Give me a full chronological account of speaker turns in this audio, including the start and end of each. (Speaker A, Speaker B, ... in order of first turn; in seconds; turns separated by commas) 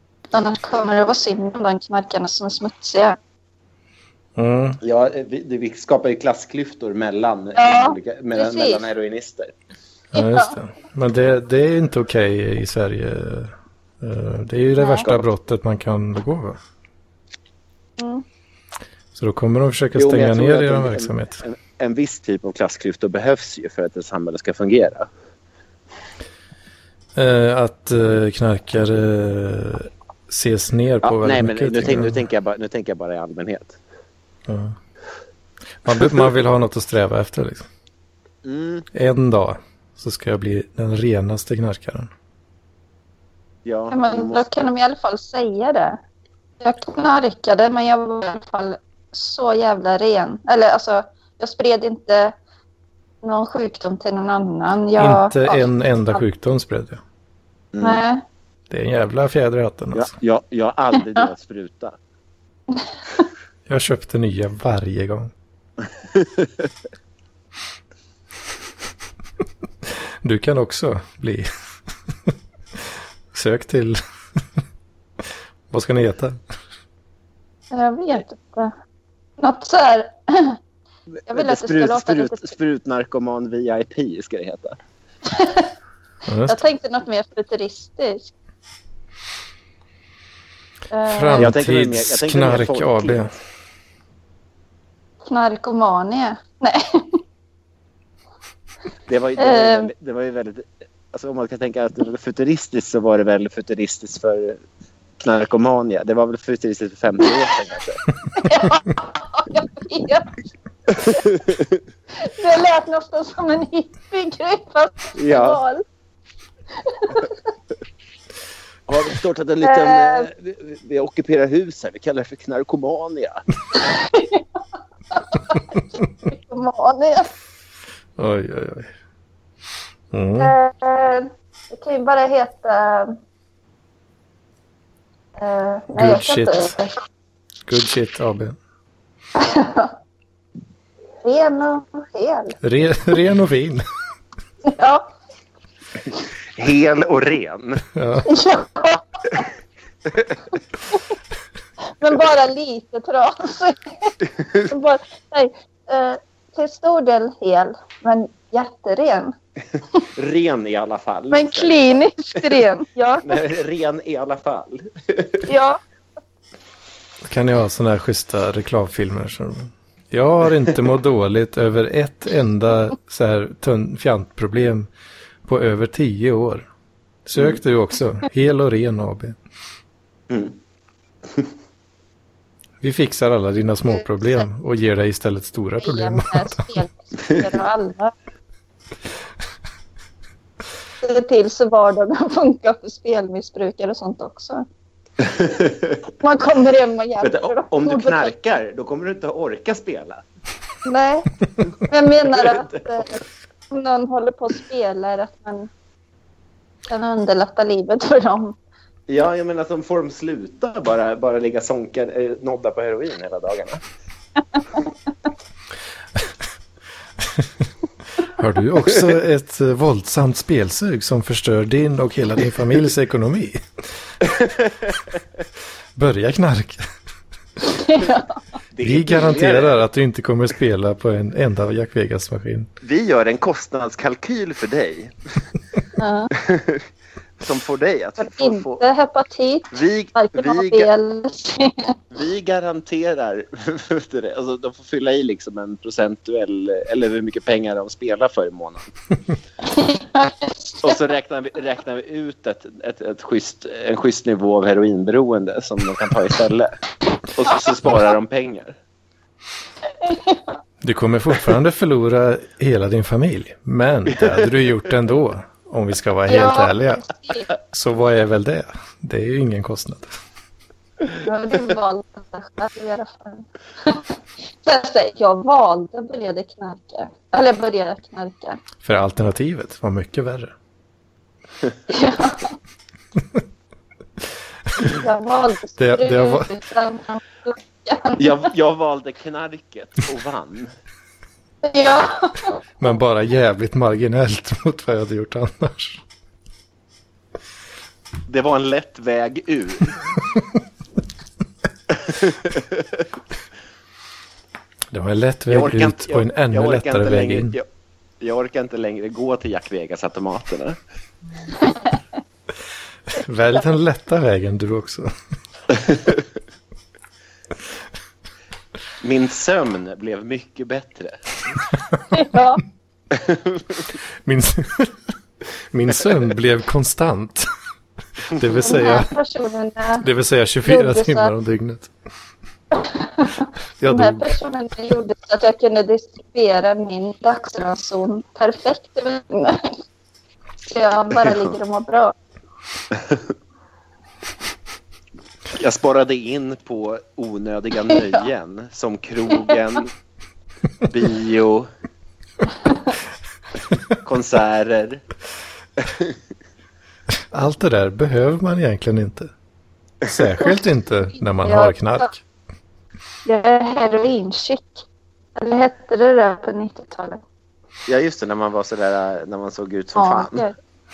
Speaker A: 0.3-3.2, Speaker B: 4.3-4.8, Speaker C: 4.8-9.5, Speaker A: 7.5-8.8, Speaker B: 10.1-16.6, Speaker A: 10.2-10.5, Speaker A: 14.8-15.1, Speaker A: 18.0-18.2, Speaker B: 19.1-21.4, Speaker C: 19.9-25.1, Speaker B: 27.1-32.2, Speaker C: 31.0-33.8, Speaker B: 34.5-34.8, Speaker B: 35.8-37.7, Speaker C: 38.4-38.9, Speaker B: 38.9-42.1, Speaker C: 43.6-44.4, Speaker A: 43.9-46.0, Speaker A: 46.6-52.4, Speaker A: 53.2-56.2, Speaker B: 55.0-57.0, Speaker C: 57.7-58.0, Speaker A: 57.8-58.2, Speaker B: 58.7-60.1, Speaker C: 59.9-62.0, Speaker A: 62.7-63.2, Speaker B: 63.7-65.3, Speaker C: 66.1-66.6, Speaker B: 69.9-71.5, Speaker B: 73.3-74.0, Speaker B: 75.7-76.4, Speaker A: 77.7-78.7, Speaker A: 79.4-80.6, Speaker A: 81.3-82.5, Speaker C: 81.3-84.8, Speaker A: 85.3-85.7, Speaker B: 86.3-86.6, Speaker A: 86.5-88.3, Speaker A: 90.9-91.5, Speaker B: 91.1-93.3, Speaker C: 91.3-93.2, Speaker A: 95.3-97.2, Speaker C: 99.1-104.6, Speaker A: 99.4-99.9, Speaker C: 105.2-108.0, Speaker A: 108.3-110.3, Speaker A: 110.9-111.4, Speaker C: 111.1-111.7, Speaker A: 112.2-115.8, Speaker C: 115.2-115.6, Speaker A: 116.8-117.3, Speaker C: 118.9-123.4, Speaker A: 119.6-120.3, Speaker A: 123.8-124.4, Speaker A: 125.1-127.3, Speaker B: 128.2-128.9, Speaker B: 130.1-130.5, Speaker A: 130.4-133.2, Speaker A: 135.4-137.0, Speaker B: 135.9-136.7, Speaker B: 137.7-138.6, Speaker A: 139.3-139.9, Speaker A: 141.2-142.6, Speaker B: 142.6-143.8, Speaker A: 144.6-145.1, Speaker C: 146.6-147.8, Speaker B: 147.9-148.3, Speaker A: 148.2-149.4, Speaker A: 152.0-159.3, Speaker C: 160.1-162.6, Speaker A: 161.3-163.4, Speaker C: 163.2-165.5, Speaker A: 165.4-165.8, Speaker B: 167.3-174.9, Speaker B: 175.4-176.7, Speaker B: 177.2-179.4, Speaker C: 180.3-180.6, Speaker B: 182.8-186.6, Speaker A: 183.9-184.4, Speaker A: 185.8-188.1, Speaker A: 191.0-194.6, Speaker C: 195.2-196.0, Speaker A: 196.2-198.3, Speaker C: 197.2-200.2, Speaker A: 200.8-205.7, Speaker C: 202.2-203.0, Speaker A: 206.9-208.6, Speaker C: 209.1-213.8, Speaker A: 214.6-214.9, Speaker B: 217.2-217.5, Speaker B: 218.2-223.6, Speaker C: 224.3-224.7, Speaker B: 225.9-226.8, Speaker A: 227.6-228.4, Speaker C: 228.7-229.8, Speaker B: 228.8-232.7, Speaker C: 232.8-235.2, Speaker A: 236.0-236.3, Speaker C: 236.3-236.8, Speaker C: 237.4-238.8, Speaker A: 238.2-242.0, Speaker C: 239.7-240.9, Speaker C: 242.1-248.9, Speaker A: 249.6-251.0, Speaker C: 250.8-256.7, Speaker C: 257.3-258.8, Speaker A: 257.5-257.8, Speaker A: 260.0-260.6, Speaker B: 260.8-270.1, Speaker C: 264.1-264.5, Speaker A: 266.3-267.5, Speaker A: 271.2-278.6, Speaker B: 278.8-280.5, Speaker A: 281.9-282.6, Speaker A: 284.9-288.5, Speaker B: 285.8-286.5, Speaker C: 288.2-290.7, Speaker A: 291.6-292.6, Speaker B: 292.8-296.0, Speaker C: 298.3-300.0, Speaker C: 301.9-303.0, Speaker B: 304.9-307.6, Speaker C: 305.5-307.6, Speaker C: 308.2-310.8, Speaker B: 313.1-315.1, Speaker C: 319.0-321.2, Speaker A: 322.1-322.6, Speaker C: 323.1-323.8, Speaker B: 324.2-324.9, Speaker B: 325.7-327.5, Speaker B: 328.3-329.1, Speaker A: 328.6-330.1, Speaker B: 330.0-331.9, Speaker A: 330.6-331.3, Speaker A: 332.7-339.8, Speaker B: 333.8-334.3, Speaker A: 340.7-342.1, Speaker C: 341.2-341.5, Speaker C: 345.5-349.9, Speaker C: 350.9-351.7, Speaker C: 354.0-355.0, Speaker C: 355.8-356.1, Speaker B: 357.3-359.3, Speaker B: 360.0-362.2, Speaker A: 361.4-362.1, Speaker A: 363.2-364.8, Speaker A: 365.4-367.2, Speaker C: 367.9-370.4, Speaker A: 369.9-370.5